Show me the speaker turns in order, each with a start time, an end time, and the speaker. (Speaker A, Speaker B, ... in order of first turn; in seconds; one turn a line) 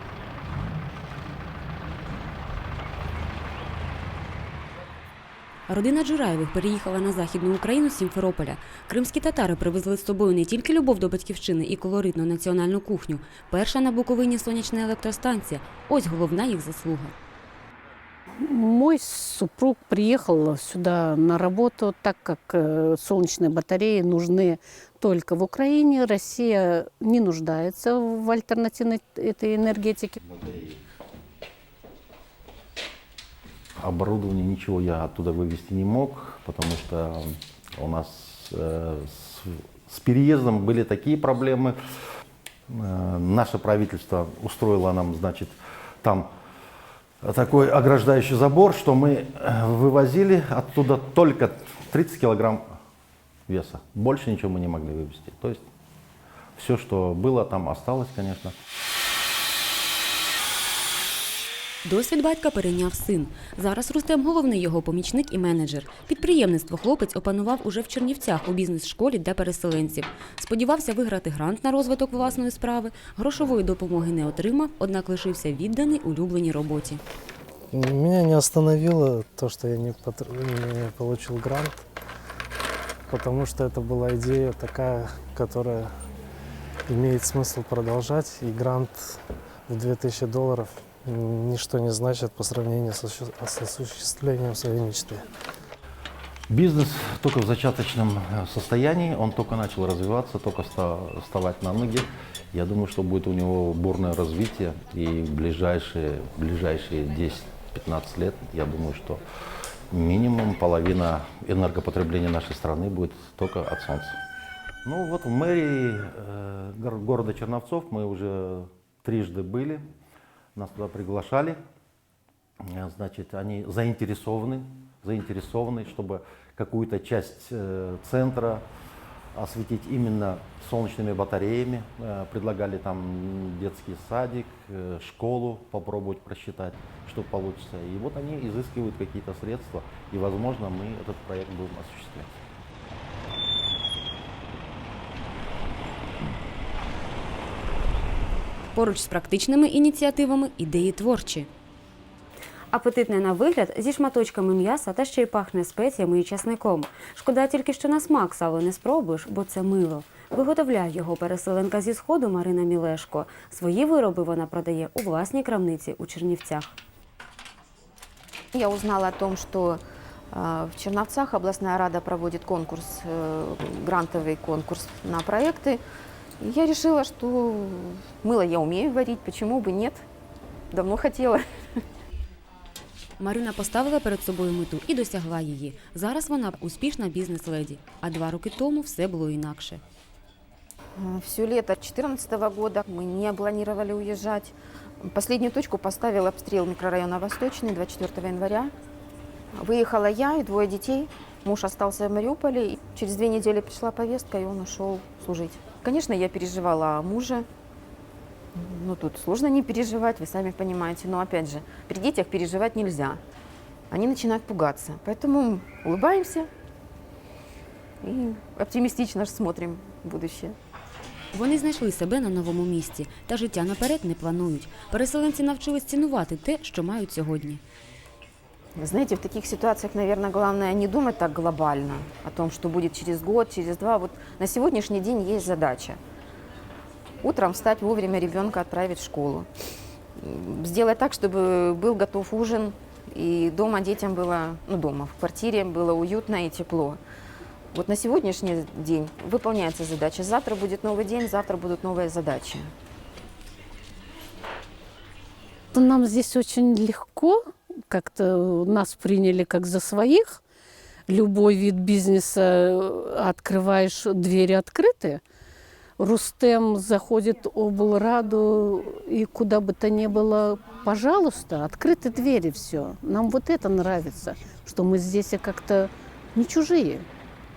Speaker A: 5.7-17.1
Speaker B: 18.4-30.2
Speaker C: 30.2-30.8
Speaker C: 33.8-41.7
Speaker C: 42.7-46.3
Speaker C: 47.2-52.8
Speaker C: 53.5-55.6
Speaker C: 56.5-58.5
Speaker A: 61.8-77.0
Speaker D: 77.7-81.8
Speaker D: 83.1-85.9
Speaker D: 86.9-95.2
Speaker C: 96.5-109.2
Speaker C: 109.9-114.2
Speaker C: 114.8-119.8
Speaker C: 120.5-121.6
Speaker C: 122.6-128.6
Speaker C: 129.3-142.4
Speaker A: 148.7-151.5
Speaker A: 152.7-166.8
Speaker E: 168.5-169.8
Speaker E: 170.3-175.8
Speaker E: 176.4-180.0
Speaker E: 180.7-181.4
Speaker A: 183.2-189.8
Speaker E: 190.9-198.7
Speaker E: 199.6-207.4
Speaker E: 208.5-213.2
Speaker E: 213.9-216.5
Speaker E: 218.0-220.6
Speaker A: 221.3-227.6
Speaker E: 228.8-236.0
Speaker E: 237.2-239.5
Speaker E: 240.2-247.0
Speaker E: 247.7-252.7
Speaker B: 255.7-257.4
Speaker B: 257.9-260.4
Speaker B: 261.1-265.2
Speaker B: 266.0-277.1